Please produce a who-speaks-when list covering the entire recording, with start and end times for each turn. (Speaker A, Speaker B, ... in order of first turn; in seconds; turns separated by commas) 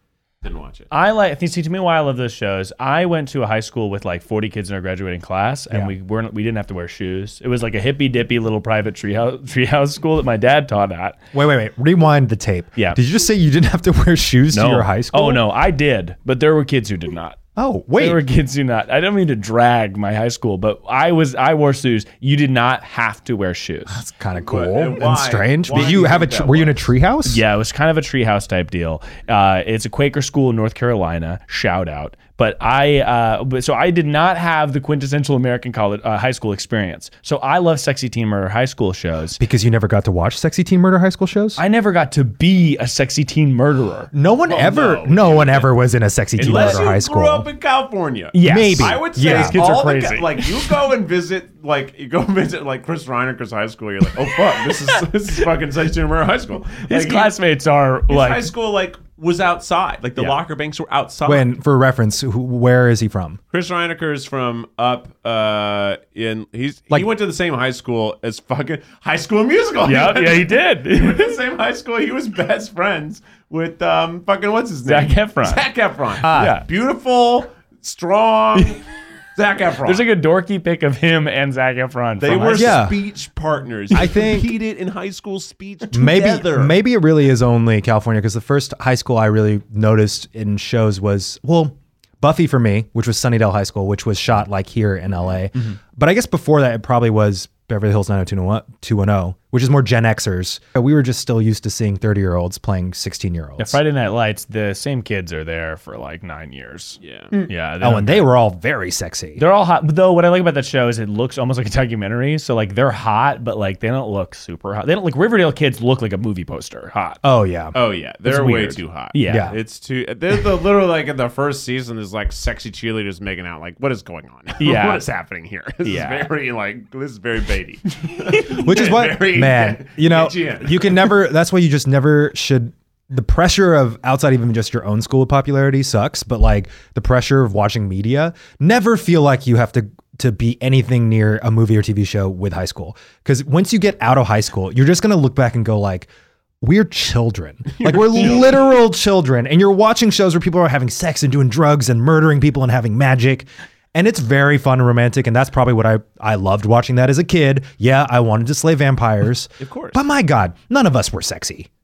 Speaker A: 0.4-0.9, Speaker B: 0.9-11.2, Speaker C: 11.3-15.4, Speaker B: 14.5-17.4, Speaker C: 17.6-18.2, Speaker B: 17.9-24.0, Speaker C: 23.9-27.4, Speaker A: 24.4-26.9, Speaker B: 27.2-39.4, Speaker C: 39.4-41.6, Speaker B: 41.6-44.1, Speaker C: 44.1-47.5, Speaker A: 44.5-45.7, Speaker B: 46.4-46.8, Speaker A: 46.4-57.3, Speaker B: 48.3-50.8, Speaker C: 48.4-49.6, Speaker B: 56.8-58.5, Speaker A: 58.1-61.5, Speaker C: 61.2-63.4, Speaker A: 63.5-78.8, Speaker B: 69.8-71.3, Speaker B: 74.8-75.7, Speaker C: 76.2-76.6, Speaker B: 76.2-76.6, Speaker B: 78.5-78.8, Speaker A: 79.3-80.0, Speaker B: 79.8-82.8, Speaker A: 82.2-86.8, Speaker C: 82.5-83.0, Speaker C: 83.9-84.5, Speaker C: 85.9-103.8, Speaker B: 103.6-108.3, Speaker A: 107.0-107.3, Speaker C: 107.8-109.4, Speaker B: 109.4-117.2, Speaker C: 117.2-117.8, Speaker A: 117.7-131.1, Speaker B: 118.2-119.5, Speaker C: 119.2-119.6, Speaker B: 124.6-125.0, Speaker B: 125.8-126.3, Speaker C: 128.4-146.1, Speaker C: 146.6-161.7, Speaker A: 147.7-148.7, Speaker A: 159.6-160.1